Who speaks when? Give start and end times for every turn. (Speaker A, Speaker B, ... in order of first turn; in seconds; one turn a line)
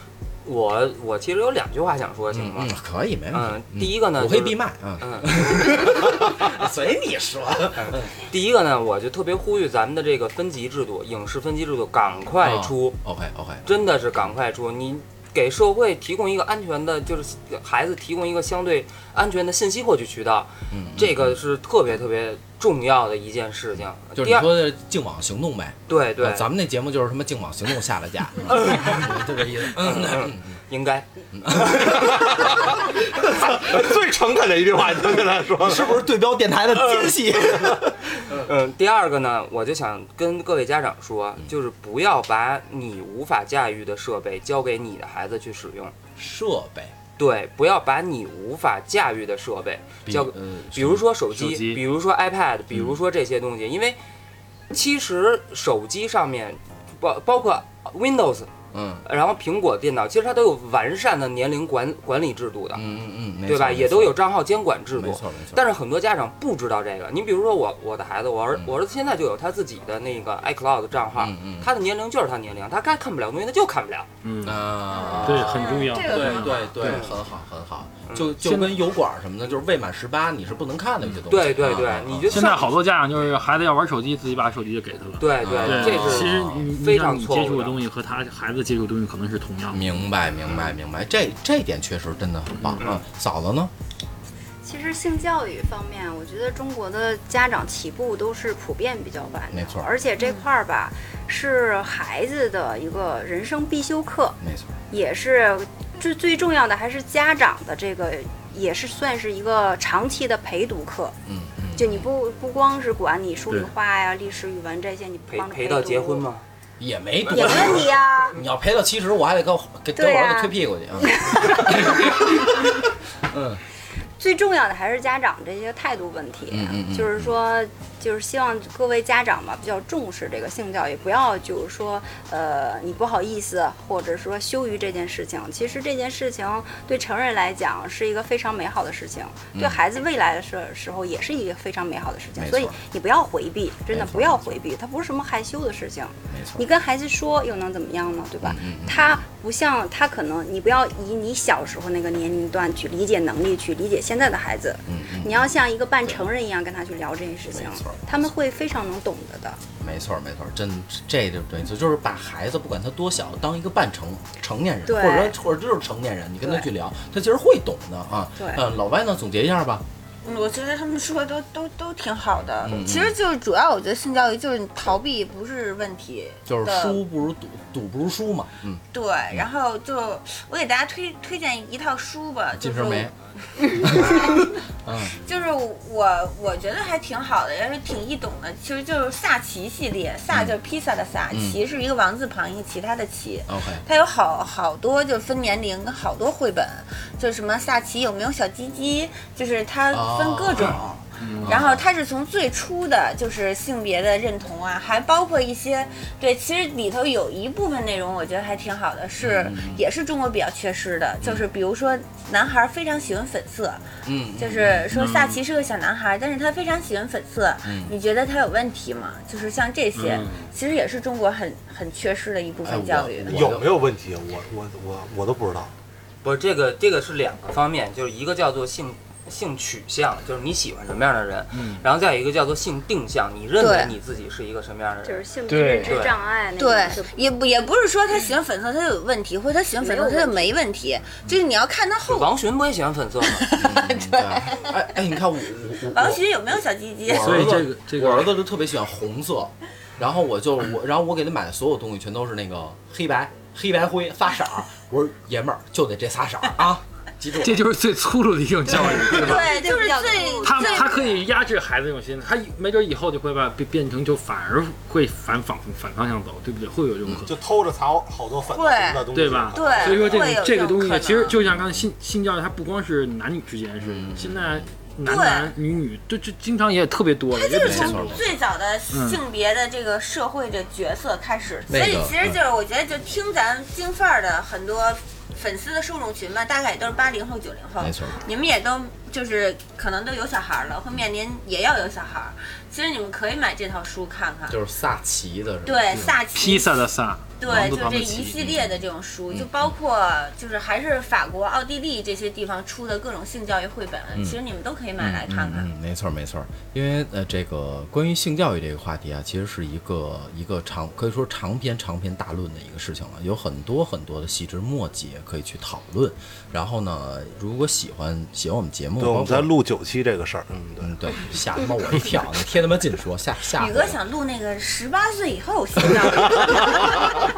Speaker A: 0.4-2.7
Speaker B: 2.3-8.1
Speaker A: 3.3-6.2
Speaker A: 7.8-12.9
Speaker B: 12.4-13.7
Speaker A: 13.7-24.5
Speaker B: 20.7-21.4
Speaker B: 24.1-30.6
Speaker A: 25.9-26.5
Speaker A: 28.5-29.1
Speaker A: 29.7-31.1
Speaker B: 31.3-33.9
Speaker C: 32.1-36.0
Speaker B: 35.6-38.5
Speaker A: 38.1-45.9
Speaker B: 46.1-46.9
Speaker A: 47.2-54.0
Speaker B: 50.0-51.0
Speaker D: 51.3-51.8
Speaker A: 54.7-58.5
Speaker B: 58.7-59.0
Speaker A: 59.0-62.9
Speaker B: 62.7-64.2
Speaker A: 63.5-74.1
Speaker B: 64.9-65.6
Speaker B: 71.1-71.7
Speaker D: 74.2-77.0
Speaker B: 74.4-82.5
Speaker E: 75.7-76.6
Speaker A: 76.8-77.2
Speaker A: 78.1-78.3
Speaker D: 78.4-78.8
Speaker A: 81.3-82.8
Speaker D: 82.2-90.7
Speaker A: 85.2-87.8
Speaker B: 85.4-86.7
Speaker B: 89.7-93.7
Speaker D: 92.5-92.8
Speaker A: 92.8-93.0
Speaker E: 94.6-104.4
Speaker B: 99.5-99.9
Speaker B: 104.4-104.8
Speaker E: 104.9-111.2
Speaker B: 111.2-112.1
Speaker E: 111.8-116.2
Speaker A: 115.3-116.4
Speaker B: 116.8-123.6
Speaker E: 117.3-118.4
Speaker E: 120.0-122.6
Speaker E: 124.2-159.6
Speaker B: 126.5-127.4
Speaker B: 139.5-139.8
Speaker B: 142.3-142.8
Speaker B: 143.9-144.6
Speaker B: 146.3-146.7
Speaker B: 148.4-149.2
Speaker B: 154.9-156.3
Speaker B: 157.5-158.3
Speaker B: 159.8-169.8
Speaker E: 164.8-165.3
Speaker E: 168.4-168.6
Speaker F: 170.2-177.0
Speaker B: 172.6-173.2
Speaker B: 176.4-179.4
Speaker F: 178.9-184.4
Speaker B: 182.6-183.1
Speaker B: 183.7-185.2
Speaker F: 185.2-223.3
Speaker B: 191.3-191.6
Speaker B: 193.5-193.8
Speaker B: 199.9-200.8
Speaker D: 201.2-201.6
Speaker B: 201.4-201.8
Speaker B: 209.2-209.8
Speaker B: 214.0-214.9
Speaker D: 214.9-215.4
Speaker B: 217.6-217.9
Speaker D: 219.9-220.5
Speaker B: 222.6-223.7
Speaker C: 223.3-225.7
Speaker A: 226.2-235.2
Speaker D: 231.5-231.8
Speaker F: 233.6-233.9
Speaker E: 235.0-237.2
Speaker D: 235.5-236.1
Speaker A: 235.8-236.2
Speaker F: 236.6-242.3
Speaker E: 239.8-240.5
Speaker A: 242.1-243.5
Speaker F: 243.2-244.7
Speaker B: 243.6-246.2
Speaker F: 245.9-247.5
Speaker B: 247.1-257.6
Speaker D: 247.2-248.3
Speaker D: 257.4-259.6
Speaker E: 258.7-261.0
Speaker F: 259.0-261.2
Speaker D: 260.4-267.4
Speaker C: 267.2-270.2
Speaker F: 268.5-271.3
Speaker D: 269.1-278.2
Speaker B: 271.5-271.9
Speaker B: 273.8-274.7
Speaker F: 275.0-275.5
Speaker F: 277.3-294.6
Speaker B: 277.6-278.3
Speaker D: 278.9-279.2
Speaker B: 281.7-282.4
Speaker B: 287.8-288.2
Speaker B: 294.5-295.9
Speaker F: 295.6-296.7
Speaker D: 295.9-298.5
Speaker F: 297.4-305.7
Speaker B: 299.3-299.7
Speaker B: 305.0-319.5
Speaker C: 319.0-320.9
Speaker B: 320.7-324.0
Speaker F: 323.6-327.1